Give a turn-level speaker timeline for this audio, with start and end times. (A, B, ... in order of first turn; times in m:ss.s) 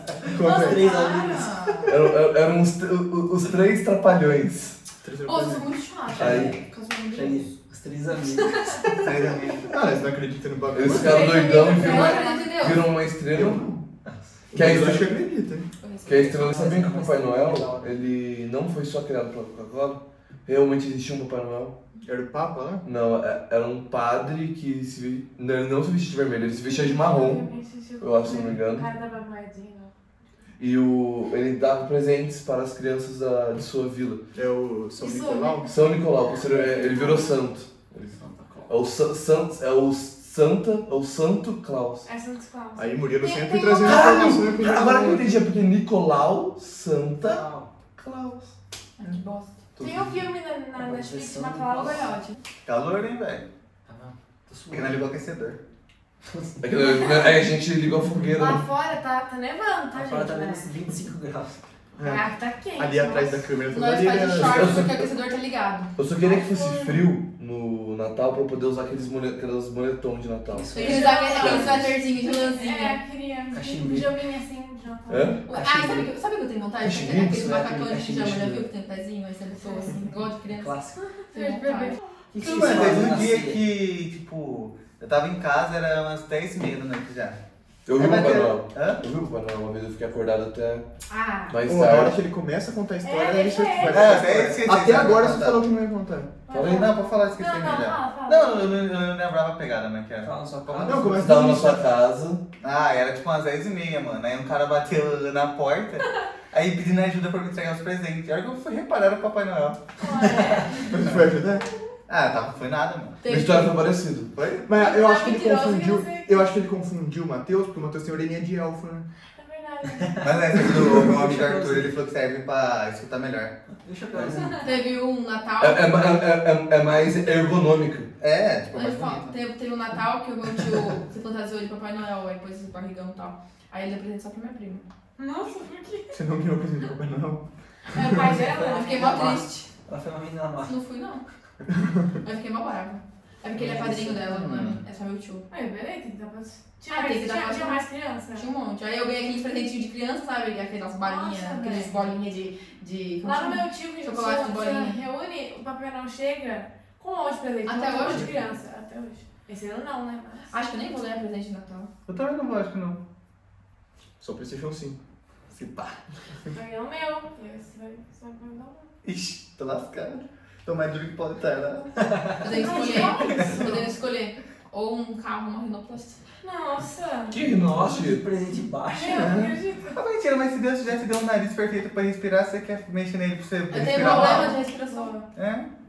0:00.3-0:00.9 A
0:00.4-0:01.4 B
0:00.4-0:01.4 C
0:00.5-0:01.9 D
0:01.9-0:04.8 E
0:05.0-0:05.7 A
0:05.2-0:07.5 D
0:06.2-0:06.5 B
0:06.2-0:06.5 E
0:07.1-0:08.8 B
0:08.5-0:09.0 C
0:09.0-0:09.7 F
0:09.6-0:11.4 A
0:10.7-0:13.6 E
0:10.8-0:12.6 C
0:11.4-0:12.9 D
0:13.3-0:13.8 A
0:14.0-0:14.4 B
0:14.5-0:15.7 A
0:14.5-0:15.2 E
0:15.8-0:16.4 D
0:16.0-0:21.7 E
0:16.1-0:18.0 B
0:22.0-0:22.8 A
0:22.8-0:27.5 E
0:26.5-0:29.9 C
0:28.0-0:28.9 E
0:30.6-0:34.2 E
0:34.3-0:35.7 A
0:34.9-0:35.7 C
0:35.7-0:38.1 E
0:36.6-0:37.3 C
0:38.2-0:38.7 B
0:38.7-0:42.1 E
0:42.0-0:44.4 C
0:42.8-0:45.4 A
0:43.8-0:47.4 E
0:47.2-0:47.7 B
0:48.0-0:48.5 E
0:49.0-0:49.5 D
0:49.8-0:52.4 C
0:50.8-0:52.2 B
0:52.6-0:53.4 F
0:53.8-0:55.1 B
0:54.7-0:55.6 F
0:56.2-0:56.5 B
0:56.6-0:58.6 E
0:56.8-0:57.4 C
0:58.4-1:00.7 C
0:59.9-1:01.6 B
1:02.0-1:04.8 A
1:02.0-1:03.5 C
1:03.7-1:05.9 D
1:04.4-1:05.1 E
1:06.0-1:10.7 E
1:06.2-1:07.0 C
1:10.5-1:12.0 B
1:10.7-1:13.0 D
1:10.7-1:15.4 C
1:13.5-1:14.2 B
1:15.1-1:15.4 E
1:15.5-1:20.7 D
1:15.5-1:16.1 B
1:16.8-1:17.4 E
1:17.1-1:18.6 B
1:19.6-1:20.2 C
1:20.5-1:21.0 B
1:21.0-1:22.2 C
1:21.3-1:23.1 D
1:22.3-1:23.7 B
1:22.4-1:27.4 F
1:27.8-1:30.8 E
1:28.0-1:29.0 F
1:31.1-1:31.6 D
1:31.5-1:32.2 E
1:31.6-1:36.4 A
1:33.0-1:34.3 C
1:33.8-1:35.7 F
1:36.5-1:38.9 C
1:36.5-1:36.9 E
1:36.6-1:41.1 F
1:40.2-1:41.4 B
1:40.8-1:41.8 A
1:41.1-1:42.4 E
1:42.6-1:50.5 F
1:50.0-1:51.0 C
1:50.8-1:51.7 A
1:52.1-1:53.2 F
1:53.2-1:53.8 D
1:53.2-1:54.3 E
1:54.3-1:54.7 F
1:54.6-1:59.1 A
1:54.7-1:56.5 C
1:59.3-2:00.5 C
2:00.0-2:02.0 B
2:00.2-2:03.5 F
2:03.8-2:04.6 B
2:04.1-2:04.4 F
2:04.6-2:06.2 D
2:05.6-2:08.1 E
2:08.2-2:09.3 F
2:08.7-2:14.8 D
2:15.2-2:16.2 C
2:16.1-2:18.4 A
2:17.9-2:19.4 C
2:18.2-2:20.8 B
2:18.6-2:19.7 D
2:20.6-2:21.2 D
2:22.2-2:25.4 D
2:23.5-2:24.2 B
2:24.3-2:24.8 F
2:25.5-2:28.5 C
2:26.9-2:35.0 D
2:31.0-2:32.4 C
2:33.2-2:40.5 C
2:37.6-2:38.3 D
2:40.5-2:41.9 D
2:42.1-2:43.0 F
2:44.2-2:45.0 A
2:45.5-2:46.0 F
2:46.5-2:48.9 C
2:49.0-2:52.0 F
2:52.4-2:56.2 D
2:52.4-2:53.9 C
2:53.3-2:53.7 F
2:56.4-2:57.4 C
2:57.3-2:58.2 E
2:57.5-2:59.4 B
2:58.9-3:00.0 C
2:59.1-2:59.6 A
2:59.9-3:04.6 F
3:03.7-3:05.1 D
3:04.0-3:05.3 C
3:05.3-3:05.7 F